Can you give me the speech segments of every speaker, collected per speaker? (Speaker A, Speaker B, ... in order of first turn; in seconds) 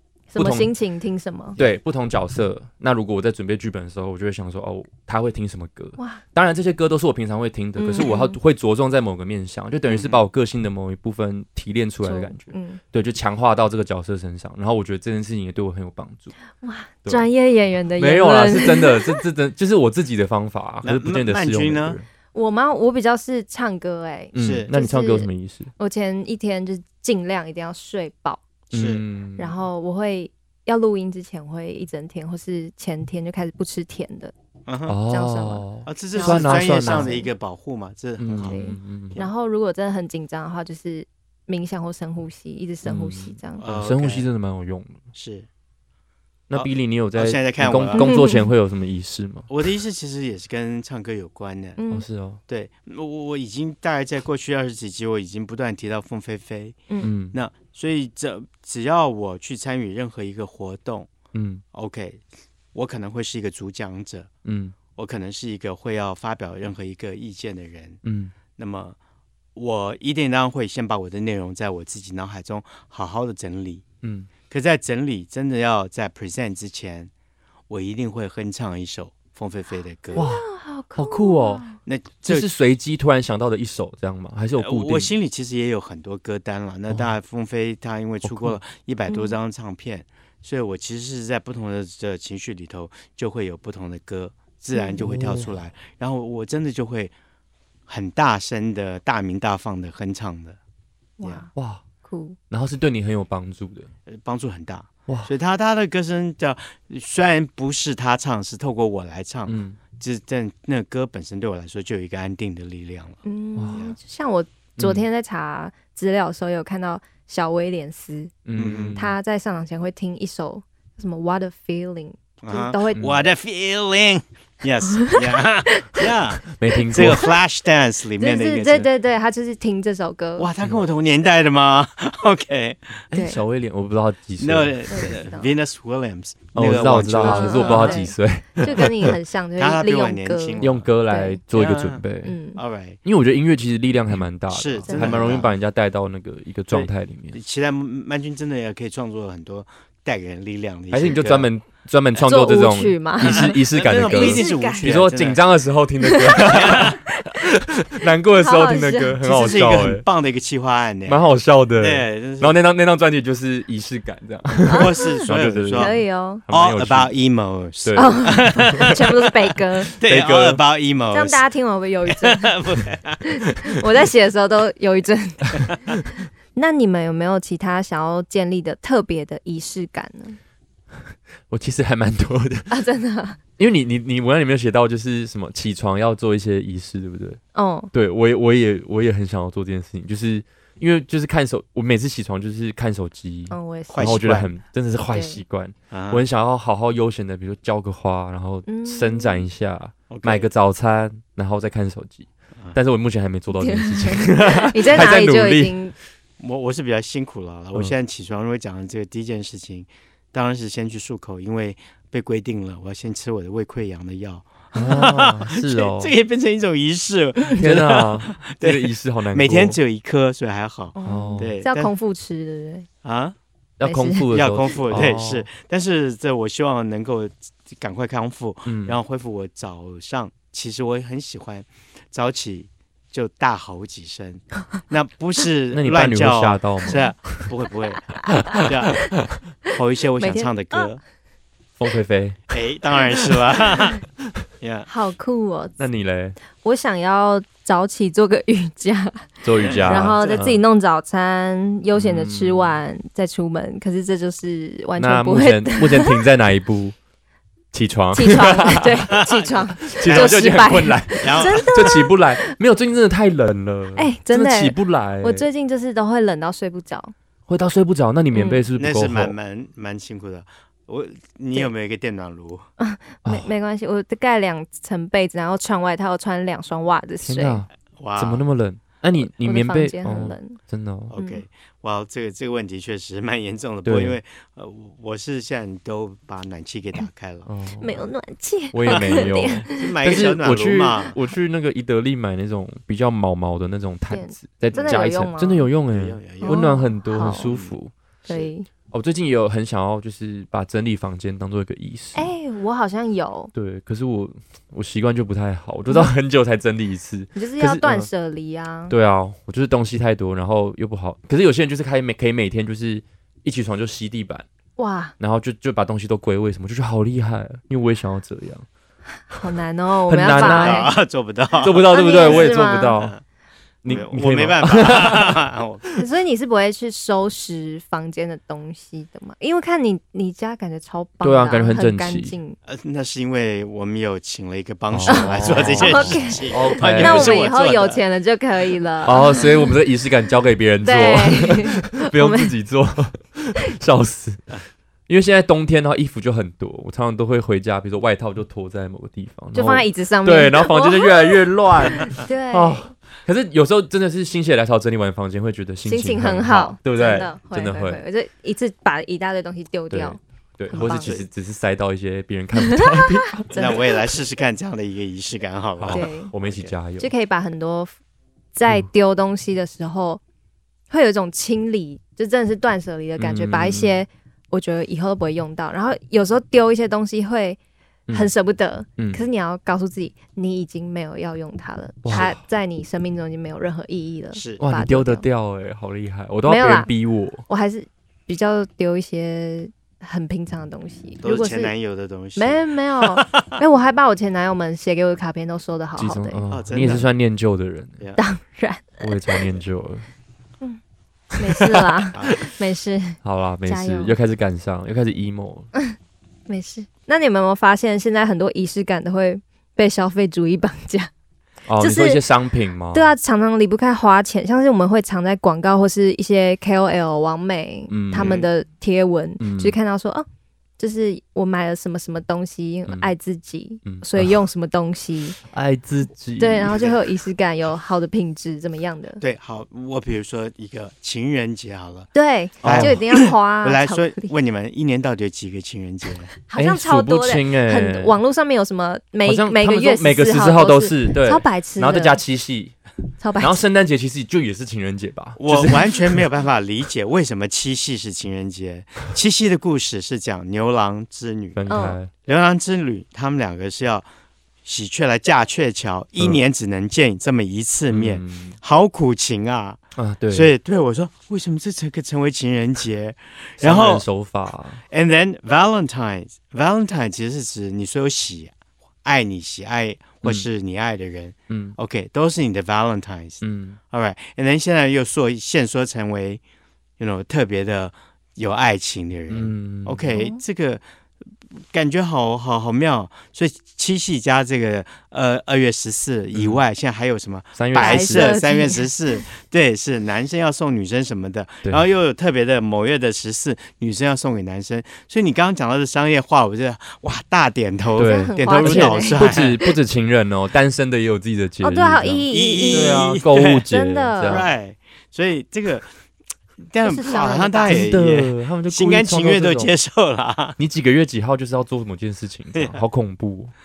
Speaker A: 0.3-1.6, 6.0-6.2, 7.8-8.4, 12.0-12.8, 16.6-19.2, 22.3-28.4, 29.4-34.3, 35.1-37.3, 38.5-43.6, 48.0-48.5, 51.8-52.0, 80.1-81.8, 89.1-89.3, 101.2-101.5, 102.0-102.4, 113.2-118.3, 119.0-123.1, 125.7-126.0, 128.2-130.5, 133.1-133.4, 134.9-135.5, 137.2-141.4, 142.2-142.6, 144.9-145.4, 152.2-154.9, 156.0-157.5, 158.3-159.1, 164.7-166.4, 168.0-169.9, 171.1-172.6, 173.2-176.0, 176.5-180.4, 182.7-183.4, 187.6-187.9, 193.5-194.2, 195.1-195.4, 198.7-199.5, 203.5-205.9, 214.8-215.1, 220.9-222.9, 223.8-224.3, 238.2-238.7, 240.2-240.9, 244.9-245.8, 246.6-256.2, 258.1-262.5, 263.9-267.1, 268.3-268.6, 272.8-277.6, 279.4-280.6, 281.2-281.4, 287.8-289.8, 294.1-295.7, 296.4-297.5, 298.3-298.7, 302.1-303.5, 307.4-308.9, 314.8-315.1, 319.3-320.9, 321.9-323.0, 326.0-332.6, 335.1-339.7, 340.8-342.5, 349.5-352.9, 355.9-361.2, 362.7-363.9, 365.9-366.3, 367.0-368.0, 368.6-370.2, 370.9-377.6, 378.1-385.2, 386.5-386.9, 387.5-391.7, 392.4-396.4, 398.2-399.4, 401.4-404.2, 406.5-411.1, 411.8-412.2, 412.9-420.3, 420.8-425.4, 426.4-429.2, 432.1-434.3, 436.5-442.2, 443.2-443.6, 451.7-452.0, 480.1-480.4, 487.8-489.2, 498.0-499.3, 501.6-504.5, 506.8-507.9
Speaker B: 0.3-0.7, 1.6-16.4, 18.0-22.1, 24.3-25.7, 28.7-29.6, 34.9-37.1, 38.2-39.2, 42.8-45.0, 46.5-49.5, 51.9-52.4, 57.0-57.4, 61.3-61.6, 64.5-64.8, 68.0-68.4, 74.0-74.3, 80.2-81.7, 82.2-85.1, 88.2-88.6, 95.0-95.5, 101.5-101.8, 102.5-103.9, 109.5-109.8, 113.6-113.8, 114.8-115.0, 118.5-119.2, 126.5-127.3, 133.1-134.8, 136.5-139.1, 140.6-142.4, 143.0-147.4, 150.9-160.1, 161.1-167.1, 167.8-168.9, 169.9-170.6, 181.5-182.7, 183.6-187.4, 187.9-205.8, 214.7-216.1, 217.6-219.8, 221.0-221.5, 223.8-225.5, 228.7-229.0, 235.7-237.5, 238.4-239.0, 241.8-242.5, 245.8-246.4, 249.4-250.6, 251.9-252.8, 255.0-256.9, 257.7-259.0, 259.9-265.5, 267.5-269.3, 277.2-281.1, 283.9-284.2, 287.5-288.0, 288.7-297.9, 298.9-302.3, 303.5-308.1, 308.9-314.5, 315.2-318.7, 320.1-320.9, 321.6-323.1, 323.8-325.4, 331.2-332.4, 334.9-337.5, 339.1-344.5, 345.1-358.0, 359.9-363.6, 365.8-367.1, 373.2-374.0, 379.0-379.2, 382.1-382.4, 384.6-387.4, 396.0-398.0, 399.0-400.1, 401.5-402.4, 403.2-405.7, 411.7-413.1, 417.9-418.4, 419.4-419.8, 423.8-424.4, 425.5-426.8, 432.6-433.0, 436.6-438.2, 439.2-442.8, 443.4-446.2, 451.5-452.1, 457.9-458.6, 460.0-460.5, 463.6-464.8, 471.5-471.8, 473.4-473.8, 479.3-480.2, 486.3-486.6, 487.6-488.4, 498.0-504.5, 507.7-509.7, 510.6-513.5
Speaker C: 9.9-10.2, 20.8-22.0, 24.4-24.7, 28.7-29.0, 34.7-35.0, 35.9-38.6, 43.6-44.3, 45.1-45.5, 46.5-48.1, 49.5-51.8, 52.5-61.1, 61.7-64.3, 65.0-68.0, 68.5-69.0, 69.5-73.8, 74.5-77.1, 77.7-80.3, 81.8-82.5, 84.6-97.1, 97.9-100.6, 104.1-113.2, 118.6-119.0, 122.4-128.9, 130.4-133.1, 134.4-138.1, 139.6-140.9, 141.5-142.0, 142.6-143.0, 144.5-145.5, 146.7-151.5, 153.2-155.4, 156.4-157.0, 159.2-161.2, 161.8-162.6, 164.7-165.9, 166.5-169.0, 170.0-171.5, 172.1-173.3, 193.9-194.5, 195.9-196.2, 200.1-200.5, 206.4-221.9, 223.0-223.4, 224.3-241.0, 242.5-244.0, 244.6-244.9, 249.6-250.4, 259.1-260.6, 261.2-262.0, 268.8-272.7, 278.0-278.4, 281.1-287.5, 288.9-291.2, 294.7-295.1, 295.9-297.7, 320.3-323.2, 323.9-325.9, 332.7-338.0, 360.7-361.3, 363.5-366.8, 384.3-384.6, 391.2-393.4, 396.5-397.1, 402.1-402.4, 418.1-418.5, 426.7-427.0, 429.2-432.1, 432.6-436.3, 445.4-451.6, 452.2-454.1, 454.6-464.1, 464.9-476.4, 477.0-480.8, 481.7-499.6, 502.3-503.6, 504.2-505.9, 506.7-510.6, 512.5-512.8